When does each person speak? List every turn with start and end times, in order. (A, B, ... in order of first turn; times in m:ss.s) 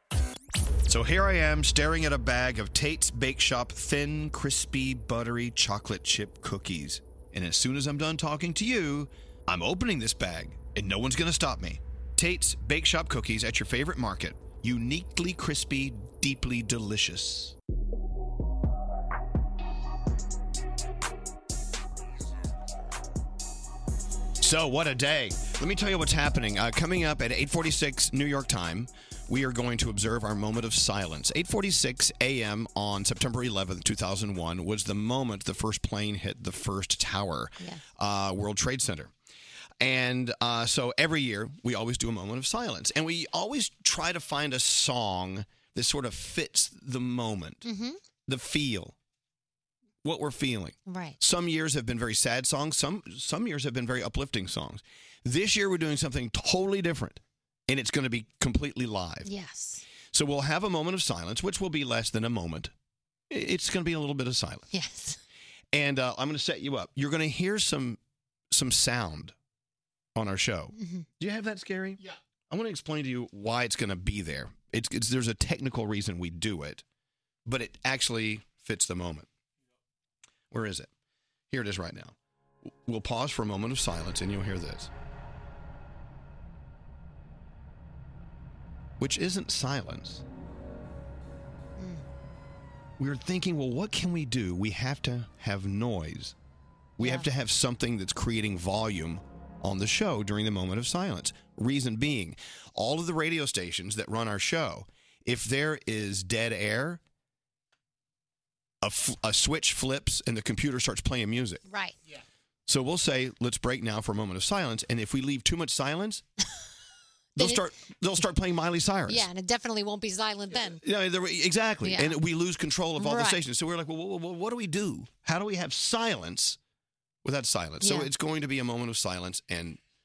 0:00.9-0:17.5 A
0:24.4-0:39.1 A
0:39.8-0:47.6 A
0:47.6-0:48.0 B
0:48.3-0:48.9 A
0:50.0-0:59.3 A
0:50.9-0:51.2 B
0:59.2-0:59.8 B
1:00.1-1:02.7 A
1:03.3-1:04.7 A
1:04.7-1:05.2 B
1:05.7-1:08.0 A
1:08.5-1:09.3 A
1:10.2-1:16.8 A
1:10.8-1:11.0 B
1:17.4-1:19.3 A
1:20.5-1:20.9 A
1:21.5-1:22.1 A
1:22.8-1:24.9 A
1:29.0-1:30.2 A
1:31.8-1:32.0 B
1:33.0-1:36.3 A
1:37.0-1:47.0 A
1:37.0-1:37.2 B
1:48.8-1:51.6 A
1:51.7-1:51.9 B
1:52.7-1:56.2 A
1:57.4-1:59.2 A
1:57.4-1:57.7 B
1:59.1-2:00.8 B
2:00.8-2:06.6 A
2:01.8-2:02.2 B
2:03.0-2:03.4 B
2:07.2-2:09.8 A
2:07.8-2:08.1 B